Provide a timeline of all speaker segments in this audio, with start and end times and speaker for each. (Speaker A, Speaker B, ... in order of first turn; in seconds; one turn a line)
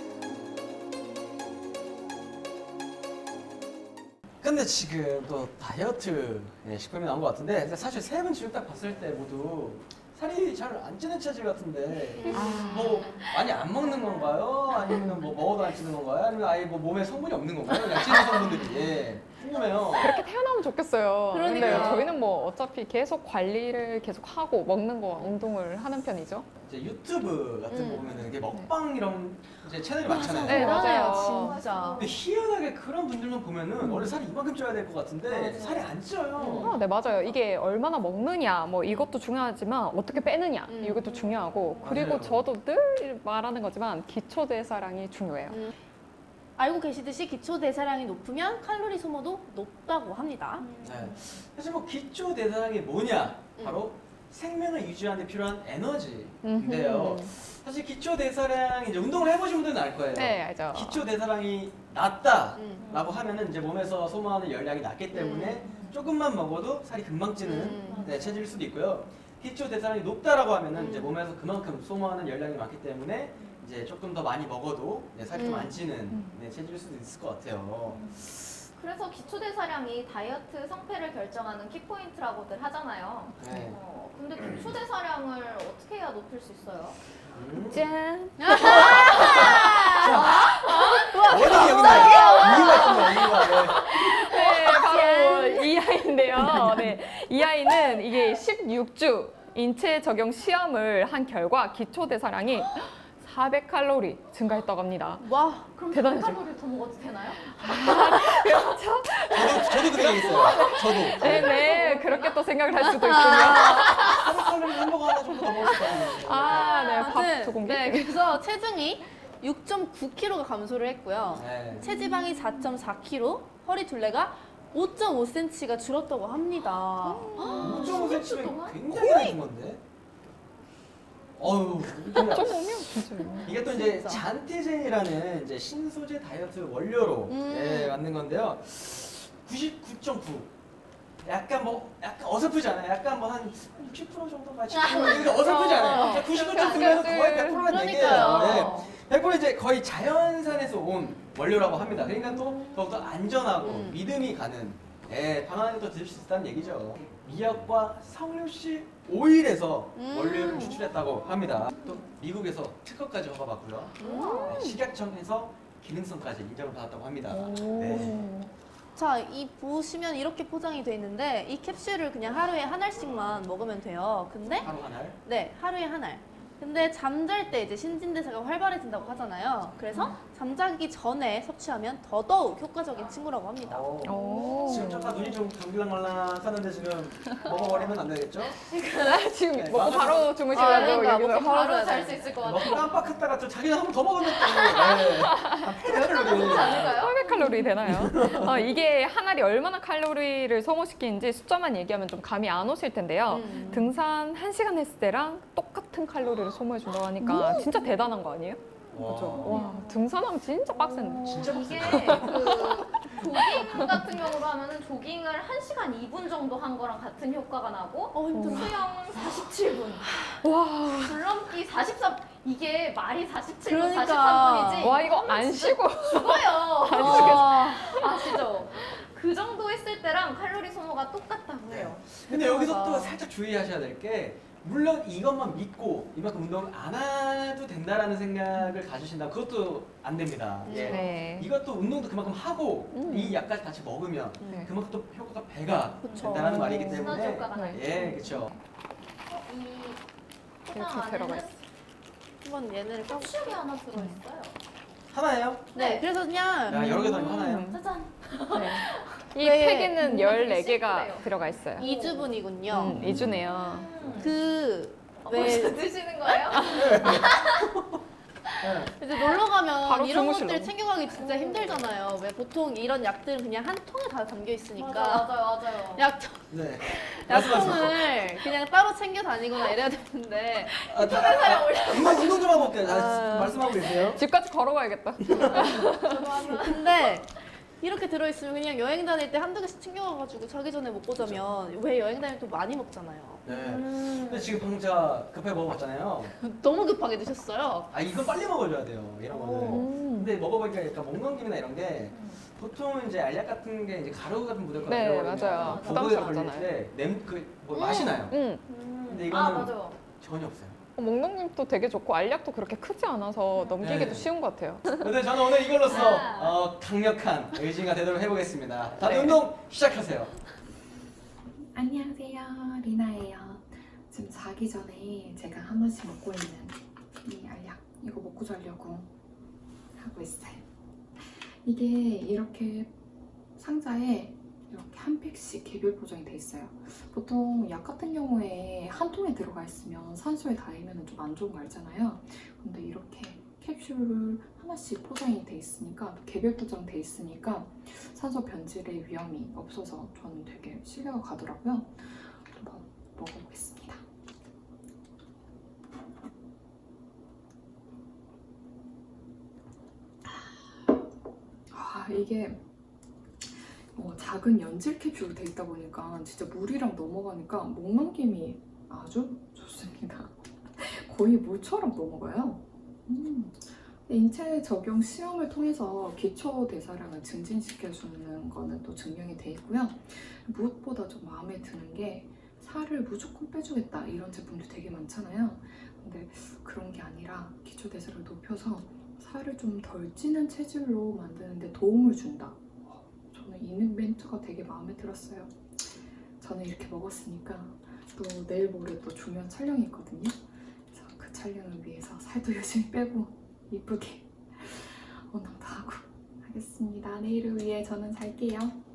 Speaker A: 4.4-20.2
Speaker B: 12.2-13.2
Speaker C: 12.3-12.9
Speaker D: 12.3-13.4
Speaker C: 20.0-26.5
Speaker B: 21.3-22.1
Speaker A: 21.5-21.9
Speaker A: 26.7-30.8
Speaker B: 27.7-28.1
Speaker D: 27.9-28.3
Speaker B: 30.0-32.1
Speaker C: 30.4-31.6
Speaker D: 30.7-32.2
Speaker A: 31.9-36.7
Speaker C: 33.8-34.2
Speaker D: 35.4-35.9
Speaker B: 36.4-36.8
Speaker C: 36.6-45.6
Speaker B: 40.7-41.5
Speaker D: 41.5-41.9
Speaker A: 41.8-42.5
Speaker B: 45.5-45.8
Speaker B: 46.6-50.7
Speaker D: 50.6-51.3
Speaker A: 50.8-78.5
Speaker B: 53.6-53.8
Speaker C: 56.4-57.3
Speaker C: 60.1-61.1
Speaker B: 62.5-62.9
Speaker D: 62.8-63.2
Speaker B: 65.1-65.7
Speaker D: 65.4-66.0
Speaker B: 67.4-68.2
Speaker D: 67.7-68.5
Speaker B: 70.7-71.1
Speaker D: 73.3-73.6
Speaker B: 75.3-75.8
Speaker D: 77.8-78.2
Speaker D: 78.7-87.0
Speaker A: 83.4-83.8
Speaker A: 87.3-87.8
Speaker C: 87.7-88.4
Speaker B: 88.4-95.7
Speaker D: 88.5-93.7
Speaker A: 88.5-90.4
Speaker A: 91.3-93.9
Speaker C: 93.8-105.2
Speaker D: 94.3-95.0
Speaker B: 105.2-105.7
Speaker D: 105.7-108.3
Speaker C: 105.9-106.5
Speaker C: 107.3-114.5
Speaker A: 109.3-111.6
Speaker D: 110.0-112.3
Speaker B: 111.4-112.2
Speaker B: 112.7-114.2
Speaker A: 113.8-116.7
Speaker C: 115.8-118.2
Speaker B: 116.3-128.1
Speaker A: 121.3-121.8
Speaker D: 121.8-122.1
Speaker C: 127.0-127.8
Speaker D: 127.4-129.3
Speaker A: 127.6-129.8
Speaker A: 131.4-132.8
Speaker C: 132.1-133.5
Speaker B: 133.4-134.2
Speaker A: 133.4-140.5
Speaker B: 137.3-138.0
Speaker A: 141.2-168.3
Speaker D: 144.7-145.6
Speaker B: 144.9-148.9
Speaker C: 145.6-148.2
Speaker D: 148.1-148.9
Speaker D: 152.1-152.9
Speaker B: 153.6-154.0
Speaker B: 160.0-160.9
Speaker D: 161.1-162.0
Speaker B: 164.0-164.6
Speaker D: 164.0-164.4
Speaker C: 164.1-164.8
Speaker C: 167.3-168.5
Speaker B: 168.9-174.7
Speaker A: 174.6-175.2
Speaker B: 175.2-183.9
Speaker A: 183.6-188.6
Speaker C: 184.0-185.0
Speaker D: 184.4-185.3
Speaker D: 188.7-189.3
Speaker C: 189.0-191.6
Speaker A: 189.5-190.5
Speaker B: 190.5-192.3
Speaker D: 190.5-193.1
Speaker A: 192.4-197.0
Speaker D: 194.4-195.1
Speaker C: 195.1-195.8
Speaker D: 195.8-197.7
Speaker C: 196.3-212.4
Speaker A: 197.8-198.6
Speaker B: 203.3-203.9
Speaker D: 203.5-203.8
Speaker D: 207.2-207.9
Speaker A: 208.9-209.6
Speaker D: 209.4-210.1
Speaker D: 210.7-220.2
Speaker A: 211.2-212.9
Speaker C: 213.0-214.0
Speaker B: 218.1-219.0
Speaker C: 218.3-218.7
Speaker C: 220.4-221.2
Speaker D: 221.0-233.2
Speaker B: 223.7-225.0
Speaker C: 224.8-228.4
Speaker B: 227.0-228.0
Speaker A: 227.0-227.6
Speaker A: 231.7-248.5
Speaker B: 240.7-241.1
Speaker C: 240.8-241.5
Speaker C: 242.9-243.4
Speaker B: 244.4-244.7
Speaker B: 246.0-247.2
Speaker D: 246.1-248.6
Speaker C: 246.5-247.0
Speaker C: 247.5-247.8
Speaker D: 249.3-250.0
Speaker D: 250.7-251.6
Speaker C: 250.7-251.5
Speaker B: 252.4-253.6
Speaker D: 253.0-254.6
Speaker C: 253.9-254.2
Speaker A: 255.1-255.7
Speaker D: 255.7-256.1
Speaker B: 255.8-257.5
Speaker A: 256.7-257.8
Speaker C: 256.7-257.8
Speaker D: 257.0-259.3
Speaker C: 258.5-261.8
Speaker B: 259.4-260.3
Speaker D: 260.0-262.4
Speaker B: 261.8-263.0
Speaker C: 262.7-263.9
Speaker A: 262.8-263.4
Speaker D: 263.0-264.3
Speaker B: 264.2-266.6
Speaker D: 265.2-267.7
Speaker A: 266.6-268.0
Speaker D: 268.4-268.7
Speaker A: 268.6-268.9
Speaker B: 268.9-280.8
Speaker C: 269.8-270.7
Speaker D: 271.1-271.9
Speaker D: 274.8-276.0
Speaker A: 276.5-278.2
Speaker D: 280.8-283.9
Speaker A: 280.9-284.2
Speaker B: 282.9-283.4
Speaker C: 284.0-286.4
Speaker A: 285.2-285.7
Speaker D: 285.5-286.8
Speaker B: 285.5-293.4
Speaker A: 291.1-291.4
Speaker A: 293.4-296.3
Speaker D: 293.5-294.4
Speaker B: 296.4-297.9
Speaker A: 297.9-308.4
Speaker B: 299.3-299.9
Speaker C: 299.6-300.3
Speaker D: 302.1-302.4
Speaker C: 304.9-306.7
Speaker D: 305.5-306.3
Speaker B: 307.7-308.2
Speaker C: 308.2-308.6
Speaker D: 308.7-310.0
Speaker A: 309.1-310.8
Speaker C: 311.0-315.1
Speaker D: 313.6-313.8
Speaker A: 313.8-314.3
Speaker A: 314.9-320.3
Speaker D: 315.8-316.6
Speaker C: 319.0-319.4
Speaker E: 321.7-329.1
Speaker E: 329.9-330.6
Speaker E: 331.2-332.9
Speaker E: 333.6-354.0
Speaker E: 361.7-362.6
Speaker E: 363.4-408.8